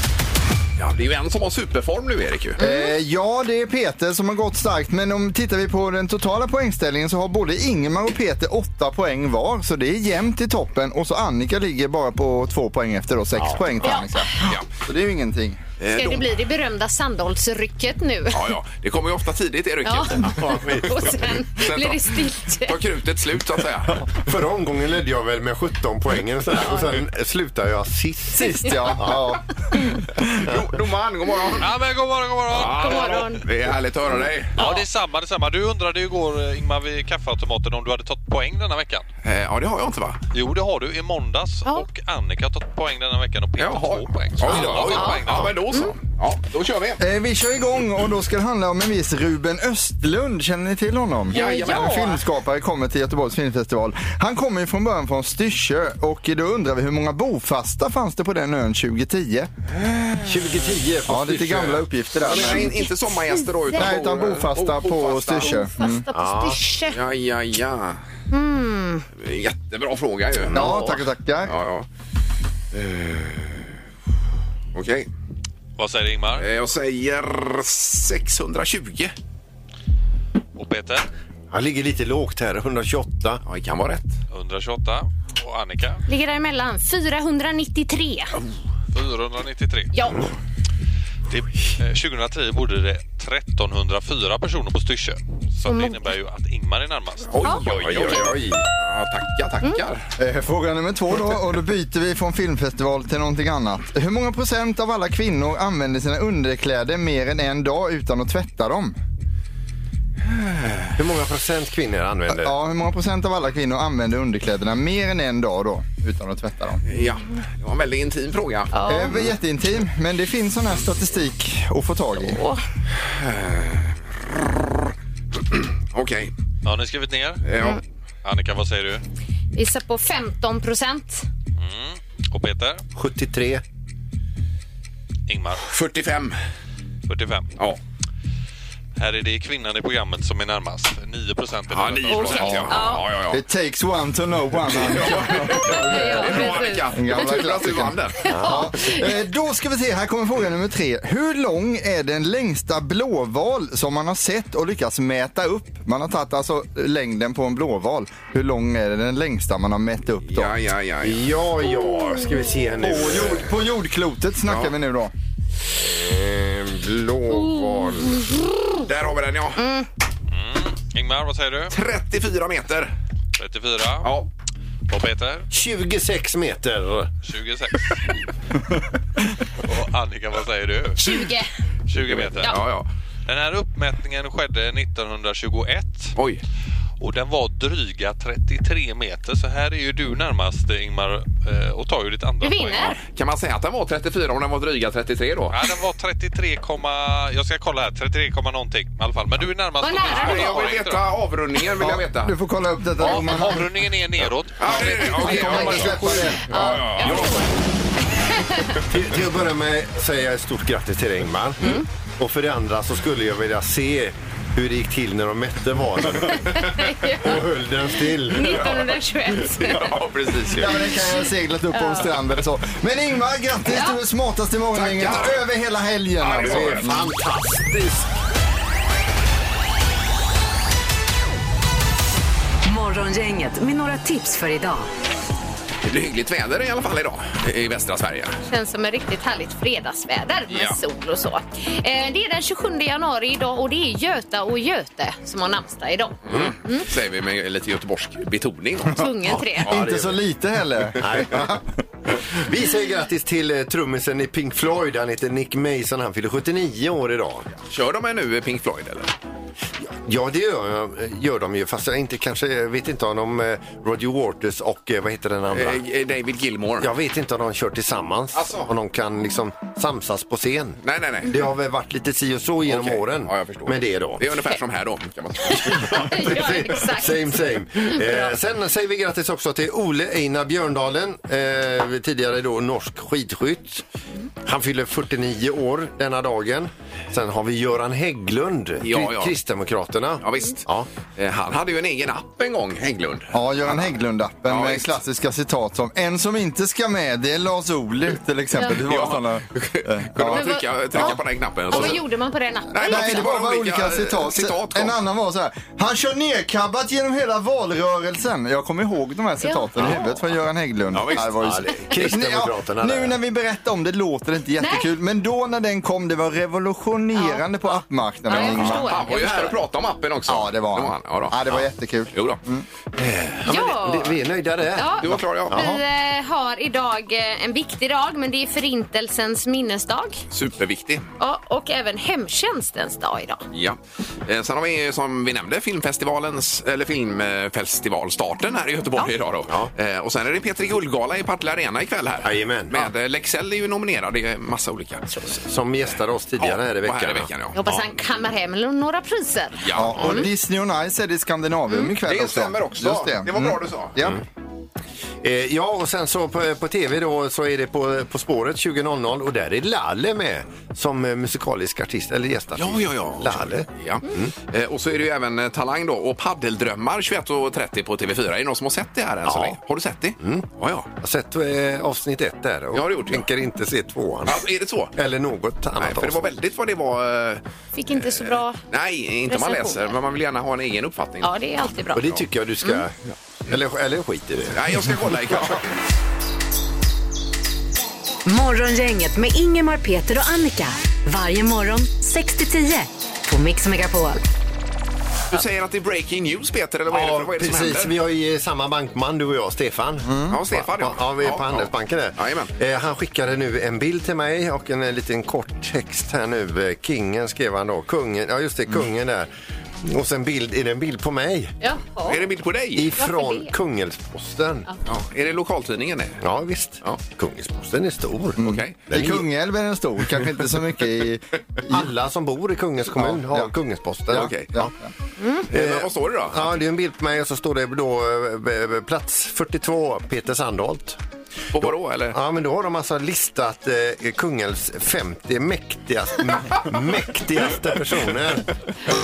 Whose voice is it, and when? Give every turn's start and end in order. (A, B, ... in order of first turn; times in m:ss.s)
0:00.8-0:02.6 A
0:02.6-0:02.9 B
0:02.6-0:15.6 C
0:13.4-0:13.9 D
0:13.8-0:14.2 B
0:14.4-0:14.7 A
0:15.8-0:16.2 A
0:15.9-0:18.5 B
0:18.3-0:24.1 A
0:19.8-0:22.8 B
0:20.2-0:21.2 D
0:24.1-0:29.3 D
0:28.3-0:30.2 C
0:30.3-0:31.8 A
0:31.6-0:33.4 E
0:32.5-0:34.6 A
0:32.6-0:33.4 B
0:34.6-0:39.0 E
0:39.2-0:40.2 A
0:40.3-0:45.6 E
0:43.6-0:47.0 A
0:44.5-0:45.5 D
0:47.0-0:59.5 C
0:51.3-0:52.2 A
0:51.3-0:52.2 B
0:59.8-1:00.4 A
1:00.2-1:01.9 D
1:01.1-1:02.8 C
1:02.2-1:05.7 A
1:03.7-1:06.0 C
1:05.4-1:07.0 B
1:06.1-1:06.6 D
1:06.9-1:08.0 A
1:08.3-1:09.0 B
1:09.2-1:11.9 A
1:10.5-1:10.9 D
1:10.5-1:11.5 C
1:12.7-1:13.7 A
1:14.7-1:15.1 A
1:15.8-1:16.4 E
1:16.4-1:19.1 A
1:20.6-1:21.1 E
1:21.5-1:23.4 D
1:23.4-1:24.2 A
1:24.3-1:26.0 E
1:26.1-1:28.3 B
1:28.9-1:29.9 E
1:29.9-1:30.2 B
1:31.3-1:38.3 E
1:35.7-1:36.0 B
1:37.3-1:40.1 A
1:37.7-1:38.6 D
1:40.2-1:48.9 C
1:50.3-1:50.9 A
1:51.0-1:52.5 D
1:52.3-1:56.8 C
1:56.8-1:58.7 A
1:58.7-1:59.2 B
1:58.8-2:02.4 C
2:02.3-2:02.6 B
2:03.0-2:04.4 A
2:05.5-2:06.3 A
2:06.6-2:07.4 E
2:07.4-2:07.8 A
2:08.2-2:09.0 E
2:09.5-2:11.3 B
2:11.6-2:12.8 E
2:12.9-2:13.6 D
2:15.3-2:15.7 E
2:15.7-2:16.4 A
2:17.1-2:17.5 E
2:19.0-2:22.8 E
2:21.7-2:23.4 A
2:22.1-2:23.0 B
2:22.4-2:22.7 C
2:23.3-2:40.5 C
2:24.7-2:28.3 A
2:25.5-2:26.9 B
2:28.2-2:29.1 B
2:28.3-2:28.7 D
2:40.3-2:41.3 A
2:41.0-2:43.6 D
2:42.8-2:45.1 C
2:44.4-2:44.7 A
2:45.7-2:48.4 D
2:48.8-2:49.6 A
2:49.6-2:49.9 B
2:50.3-2:51.7 E
2:51.7-2:52.9 A
2:53.4-2:54.1 E
2:54.0-2:54.3 A
2:54.9-2:55.5 E
2:55.5-2:57.1 D
2:57.2-2:58.2 E
2:59.6-3:01.3 E
3:01.0-3:01.5 B
3:01.9-3:02.6 E
3:02.0-3:02.9 A
3:03.2-3:06.1 E
3:06.2-3:06.4 A
3:07.0-3:13.0 E
3:12.4-3:13.0 B
3:12.9-3:15.7 A
3:15.5-3:21.1 E
3:19.8-3:20.7 B
3:20.0-3:22.3 A
3:21.8-3:23.8 C
3:23.0-3:26.4 E
3:24.6-3:27.4 A
3:24.7-3:27.0 C
3:26.5-3:27.5 B
3:28.3-3:28.7 B
3:28.8-3:38.7 D
3:36.4-3:37.4 B
3:38.0-3:40.0 B
3:38.4-3:41.0 A
3:40.5-3:47.0 C
3:41.7-3:42.1 B
3:43.7-3:44.0 B
3:44.7-3:45.4 A
3:46.2-3:47.0 A
3:46.4-3:48.1 D
3:52.6-3:54.9 F
3:55.8-3:58.4 A
3:58.5-4:06.8 B
4:00.5-4:00.8 A
4:06.2-4:10.0 A
4:08.9-4:09.7 B
4:09.6-4:10.2 D
4:09.6-4:11.6 C
4:11.0-4:11.6 D
4:12.1-4:17.5 D
4:17.7-4:19.1 A
4:19.8-4:25.8 D
4:25.5-4:26.9 A
4:26.8-4:34.3 D
4:28.3-4:28.7 A
4:30.8-4:31.4 A
4:32.6-4:36.4 A
4:35.4-4:38.3 B
4:36.1-4:43.8 D
4:44.4-4:50.9 D
4:48.8-4:49.3 A
4:50.2-4:50.6 A
4:51.2-4:53.9 A
4:53.3-5:01.2 C
4:54.4-4:54.9 A
4:58.6-5:02.0 A
5:00.3-5:01.2 B
5:01.7-5:02.0 C
5:01.7-5:03.3 B
5:02.7-5:05.0 A
5:02.8-5:18.9 C
5:09.4-5:10.2 B
5:10.9-5:11.8 A
5:11.4-5:13.2 D
5:14.6-5:14.9 B
5:17.1-5:19.6 B
5:18.3-5:22.4 A
5:20.3-5:22.6 C
5:23.0-5:25.7 D
5:23.5-5:24.2 B
5:24.7-5:30.2 B
5:25.0-5:25.6 A
5:30.3-5:31.0 A
5:31.2-5:33.4 B
5:33.5-5:45.4 A
5:42.2-5:42.9 D
5:45.4-5:47.3 D
5:46.4-5:47.8 A
5:47.5-5:50.3 B
5:49.6-5:50.2 A
5:49.7-5:54.2 C
5:52.0-5:54.0 A
5:55.2-6:04.3 D
6:02.6-6:10.9 A
6:09.2-6:09.6 D
6:10.2-6:10.5 D
6:11.0-6:14.4 D
6:12.7-6:13.3 A
6:14.2-6:14.9 A
6:14.9-6:16.3 D
6:15.8-6:21.4 A
6:17.7-6:18.6 B
6:19.3-6:19.9 B
6:21.2-6:22.8 B
6:21.9-6:24.7 D
6:24.5-6:25.7 A
6:28.2-6:34.2 F
6:35.3-6:37.9 A
6:36.9-6:49.3 D
6:40.1-6:40.4 C
6:40.3-6:42.5 A
6:49.8-6:51.6 D
6:51.6-6:52.2 B
6:52.0-6:52.9 A
6:52.7-6:54.7 D
6:53.0-6:53.5 B
6:54.8-6:56.2 A
6:56.2-6:59.2 D
6:58.4-7:01.9 C
6:58.4-6:58.8 A
7:01.7-7:04.7 D
7:02.9-7:03.5 C
7:04.1-7:04.9 C
7:04.1-7:04.5 A
7:05.2-7:05.4 B
7:05.5-7:06.5 A
7:05.5-7:11.0 D
7:11.5-7:12.2 A
7:12.1-7:18.4 D